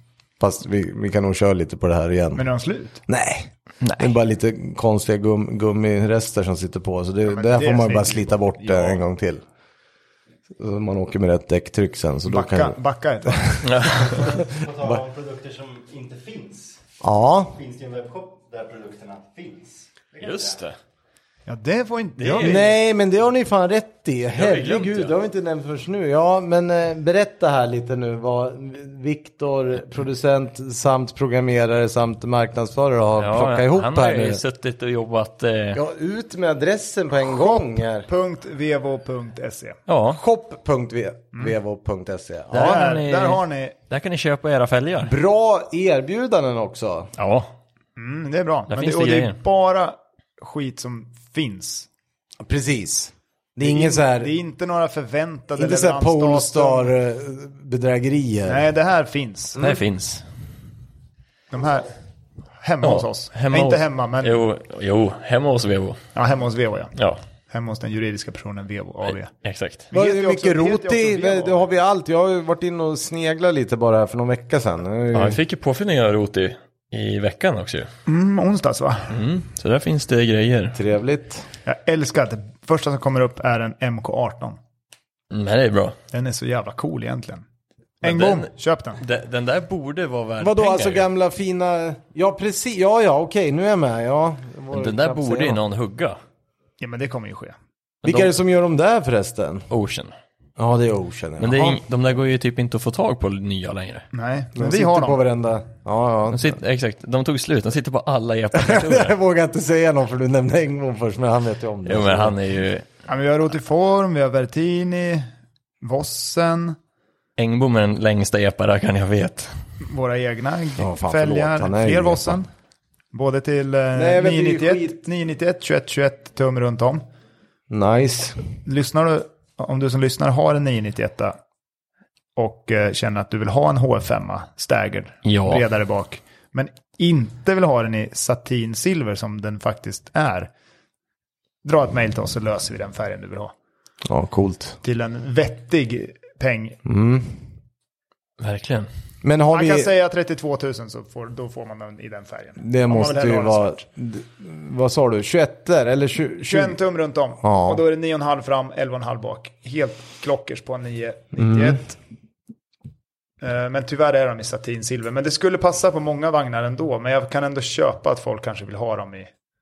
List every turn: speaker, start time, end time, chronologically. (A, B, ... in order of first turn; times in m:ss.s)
0:00.4-0:02.4 A
0:02.4-0:03.0 B
0:03.1-0:09.4 A
0:03.8-0:04.1 C
0:07.3-0:09.0 B
0:10.6-0:13.6 A
0:12.3-0:13.7 B
0:13.6-0:14.1 C
0:14.0-0:16.8 D
0:17.0-0:17.6 A
0:17.5-0:20.7 D
0:20.2-0:20.8 C
0:21.5-0:22.7 B
0:22.2-0:22.6 C
0:22.4-0:34.4 A
0:24.4-0:25.1 C
0:33.2-0:35.8 C
0:35.7-0:38.1 A
0:37.3-0:39.8 B
0:39.9-0:40.2 C
0:40.1-0:42.9 A
0:42.5-0:45.1 C
0:42.5-0:43.8 B
0:45.0-0:47.1 A
0:47.2-0:47.5 C
0:48.0-0:51.9 B
0:48.7-0:49.4 C
0:52.4-0:54.3 A
0:53.6-0:56.9 B
0:55.6-0:58.7 A
0:58.5-0:59.6 B
0:59.6-1:00.2 C
1:01.5-1:01.9 B
1:02.6-1:04.4 B
1:02.8-1:06.0 C
1:06.1-1:06.9 B
1:07.5-1:09.3 B
1:09.4-1:09.9 C
1:09.9-1:11.6 B
1:09.9-1:15.4 A
1:15.1-1:17.9 C
1:18.1-1:19.2 B
1:19.1-1:20.8 C
1:20.7-1:21.5 A
1:21.7-1:24.6 B
1:25.3-1:26.0 C
1:26.1-1:27.4 B
1:28.0-1:29.0 B
1:28.0-1:31.1 C
1:30.4-1:35.6 A
1:34.7-1:36.2 C
1:36.8-1:37.6 B
1:38.0-1:38.3 C
1:38.0-1:39.7 A
1:39.7-1:40.1 C
1:40.6-1:41.8 A
1:41.4-1:44.1 C
1:44.1-1:45.2 B
1:44.6-1:46.6 A
1:46.3-1:49.1 C
1:48.5-1:52.4 A
1:51.9-1:52.8 C
1:53.1-1:55.3 B
1:55.8-1:56.8 B
1:57.4-1:59.5 C
1:59.8-2:02.5 B
2:00.8-2:02.4 A
2:03.1-2:07.0 B
2:04.0-2:05.0 A
2:07.7-2:08.4 A
2:08.7-2:11.4 B
2:12.4-2:20.5 B
2:15.2-2:15.6 C
2:21.6-2:23.5 B
2:24.1-2:24.8 A
2:24.8-2:26.8 B
2:26.8-2:27.4 A
2:28.4-2:28.9 C
2:29.2-2:29.9 A
2:29.5-2:33.8 B
2:32.6-2:36.8 A
2:36.5-2:42.0 B
2:37.4-2:37.8 A
2:41.4-2:41.8 A
2:43.4-2:49.3 B